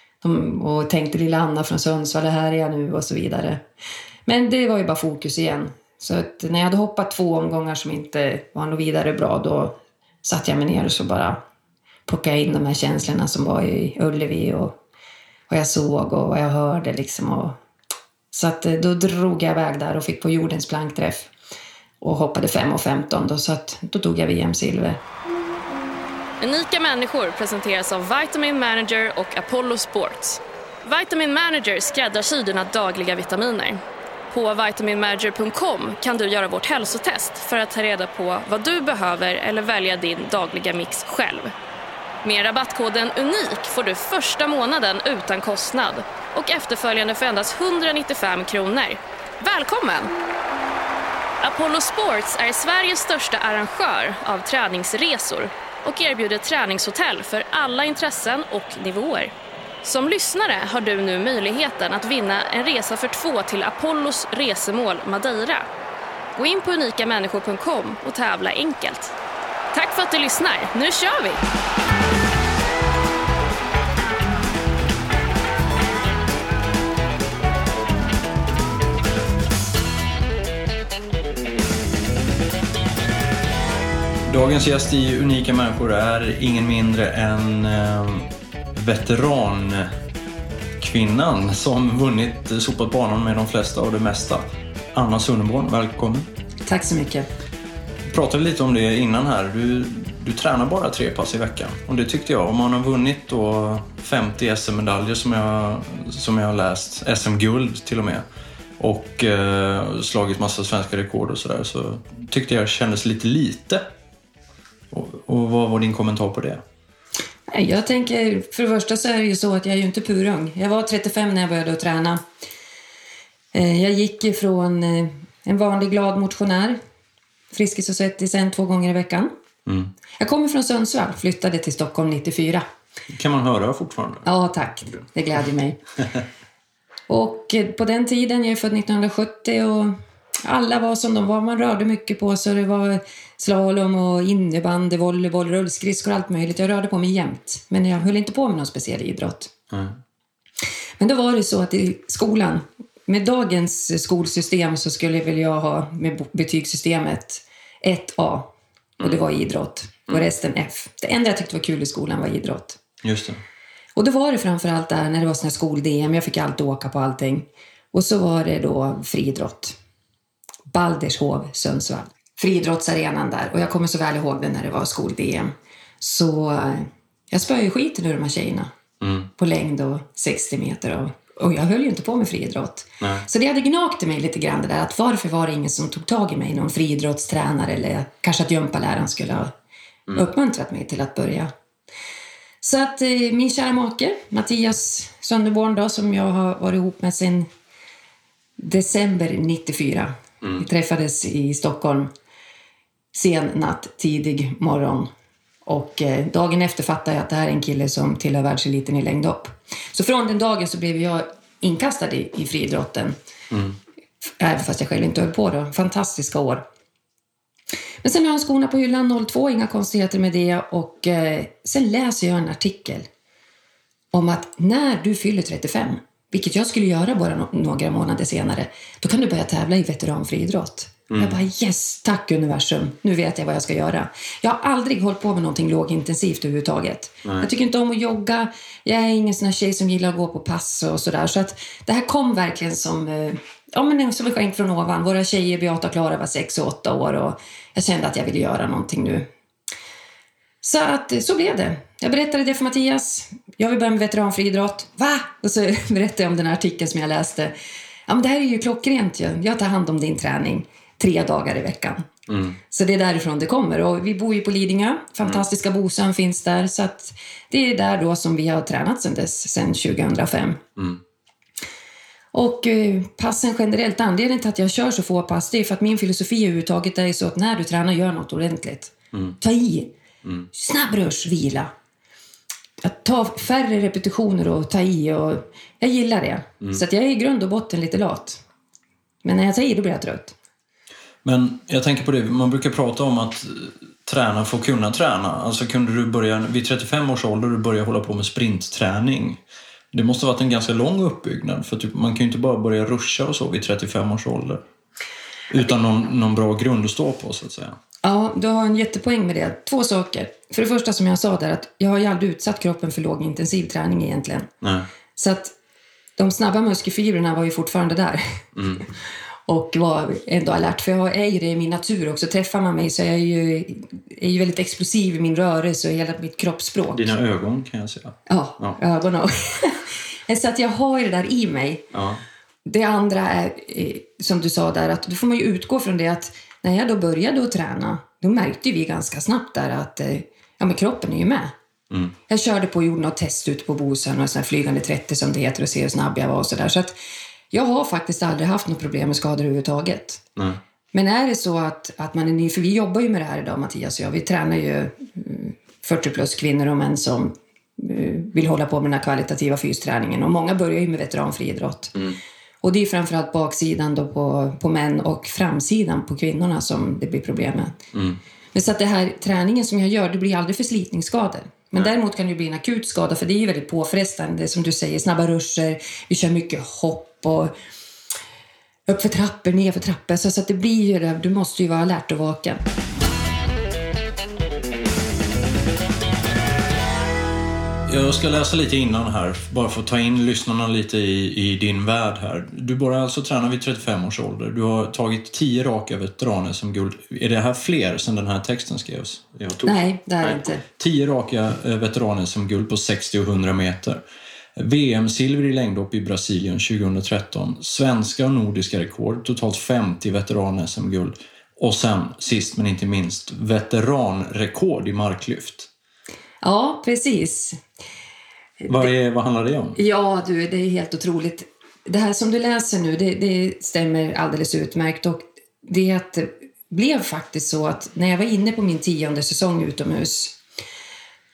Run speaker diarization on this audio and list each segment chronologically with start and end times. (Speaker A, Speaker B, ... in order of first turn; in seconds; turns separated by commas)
Speaker A: 0.2-3.6, Speaker A: 4.3-11.4, Speaker A: 12.1-14.7, Speaker A: 15.5-17.6, Speaker A: 18.3-21.3, Speaker A: 22.0-25.0, Speaker B: 26.4-33.8, Speaker B: 34.3-41.5, Speaker B: 42.2-50.1, Speaker B: 51.4-59.3, Speaker B: 59.8-65.6, Speaker B: 66.3-69.1, Speaker B: 69.7-71.4, Speaker C: 84.3-89.9, Speaker C: 90.8-94.4, Speaker C: 94.9-96.3, Speaker A: 96.7-97.3, Speaker C: 98.1-108.2, Speaker C: 108.8-113.8, Speaker C: 114.9-116.6, Speaker A: 117.5-122.2, Speaker A: 123.5-126.8, Speaker A: 127.5-129.3, Speaker C: 129.7-129.9, Speaker A: 130.2-132.6, Speaker C: 133.1-134.2, Speaker A: 134.2-135.8, Speaker A: 137.1-149.5, Speaker C: 149.7-150.0, Speaker A: 151.0-162.8, Speaker C: 163.0-163.4, Speaker A: 163.9-169.8, Speaker A: 170.7-178.7, Speaker C: 179.0-179.3, Speaker A: 179.4-189.5, Speaker C: 183.0-183.2, Speaker A: 190.1-191.5, Speaker A: 192.6-197.5, Speaker A: 198.6-202.1, Speaker A: 203.1-205.1, Speaker A: 205.7-213.2, Speaker C: 213.5-213.8, Speaker A: 214.3-216.6, Speaker A: 218.0-223.1, Speaker A: 224.1-249.3, Speaker C: 231.1-231.4, Speaker A: 250.6-257.5, Speaker A: 258.1-262.1, Speaker C: 262.3-262.6, Speaker A: 262.7-270.6, Speaker C: 270.8-271.0, Speaker A: 272.3-279.9, Speaker A: 280.5-281.7, Speaker A: 282.8-288.4, Speaker A: 289.2-290.4, Speaker C: 291.2-299.4, Speaker C: 299.9-304.6, Speaker C: 305.5-307.8, Speaker A: 308.0-314.5, Speaker C: 314.6-314.9, Speaker A: 315.2-315.5, Speaker A: 316.2-318.4, Speaker C: 318.5-318.8, Speaker A: 319.5-327.1, Speaker C: 326.9-328.8, Speaker A: 328.3-331.9, Speaker C: 331.9-332.2, Speaker A: 332.6-341.5, Speaker C: 341.9-342.1, Speaker A: 342.3-347.0, Speaker A: 347.5-350.2, Speaker C: 350.4-350.6, Speaker A: 350.9-361.9, Speaker A: 362.6-367.8, Speaker C: 367.9-368.2, Speaker A: 368.5-377.5, Speaker A: 378.9-382.6, Speaker C: 387.9-404.0, Speaker A: 399.6-400.6, Speaker C: 404.6-415.7, Speaker A: 416.4-417.6, Speaker A: 418.6-418.9, Speaker C: 418.7-419.8, Speaker A: 419.8-430.4